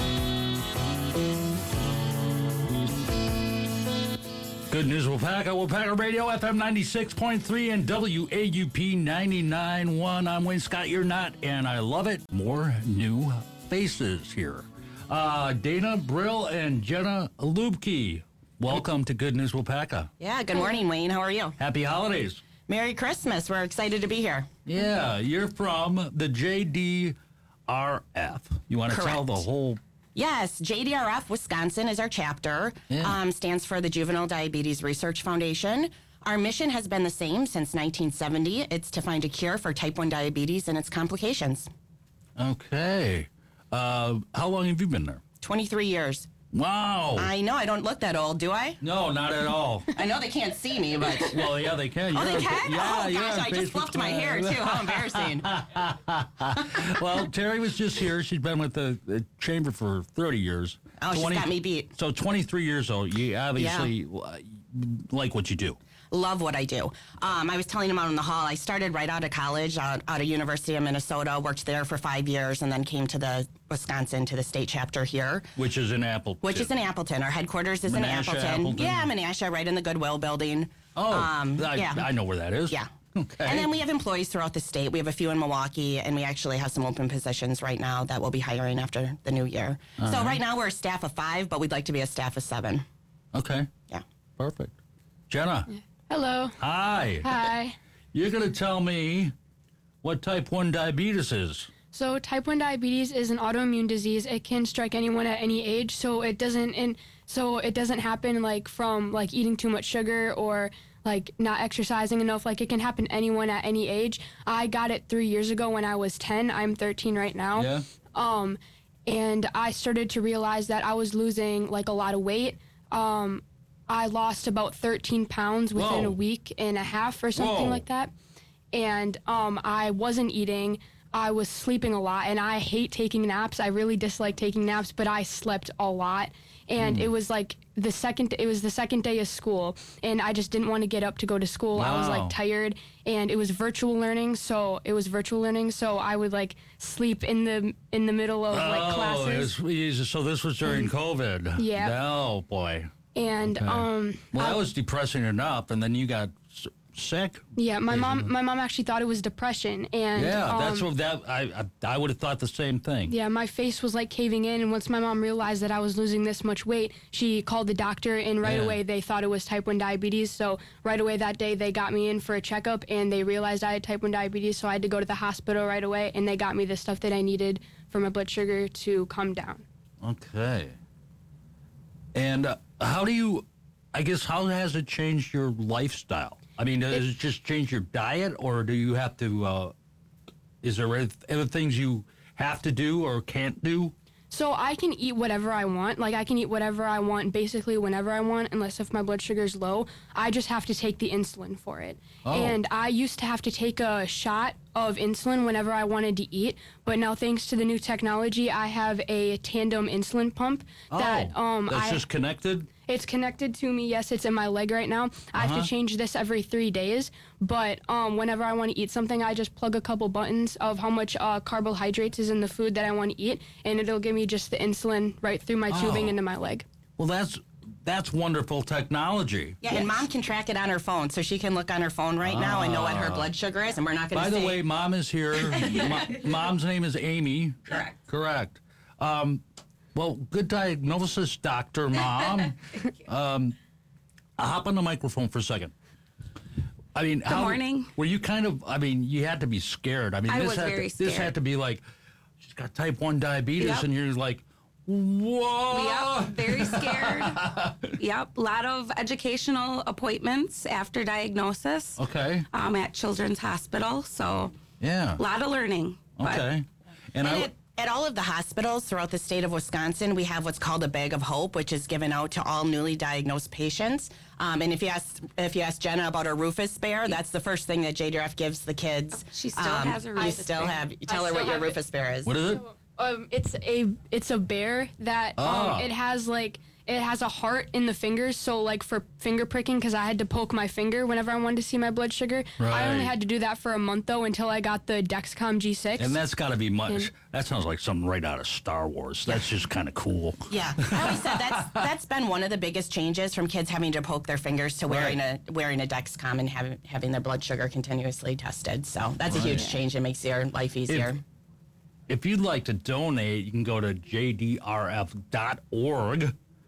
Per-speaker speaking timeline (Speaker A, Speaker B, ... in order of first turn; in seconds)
Speaker A: 4.7-20.1, 21.6-22.4, 24.6-27.1, 27.7-29.8, 32.9-33.1, 42.4-45.2, 46.5-47.3, 48.8-50.0, 51.1-65.8, 75.5-76.7, 77.9-79.1, 80.9-83.7, 90.0-90.4, 93.3-93.7, 94.4-94.7, 95.3-95.7, 96.6-97.3, 98.1-99.3, 100.0-101.7, 117.5-117.8, 125.7-126.2, 127.3-127.8, 136.8-137.1, 141.7-142.3, 148.5-152.9, 153.4-158.3, 160.1-163.1, 168.4-168.8, 180.0-180.8, 182.1-189.7, 190.6-193.9, 202.2-202.6, 210.9-212.7, 215.3-215.7, 225.7-226.2, 227.0-230.0, 232.2-233.3, 234.1-239.4, 239.9-243.5, 244.4-245.7, 246.9-251.8, 252.4-257.9, 262.0-262.4, 264.8-265.2, 266.2-267.5, 282.2-282.6, 285.4-285.9, 292.6-293.1, 296.0-301.9, 304.9-305.2, 309.2-309.8, 312.1-316.3
Speaker B: 20.2-21.6, 22.7-24.5, 28.9-29.4, 30.1-41.7, 45.4-46.3, 47.1-48.8, 49.9-51.5, 52.1-55.5, 56.6-56.9, 61.0-61.9, 63.5-63.9, 66.1-75.5, 76.4-82.1, 83.4-92.8, 229.6-234.6, 267.2-282.3, 300.5-311.2
Speaker C: 96.1-96.6, 97.2-97.8, 101.9-128.1, 128.7-149.5, 151.6-151.9, 153.1-154.6, 157.5-160.9, 163.1-179.6, 194.3-212.0, 212.9-226.6, 281.0-281.8, 282.4-296.2
Speaker D: 247.2-247.9, 250.3-251.3, 253.6-253.8, 255.7-262.0, 262.5-264.5, 265.2-266.4, 279.2-280.8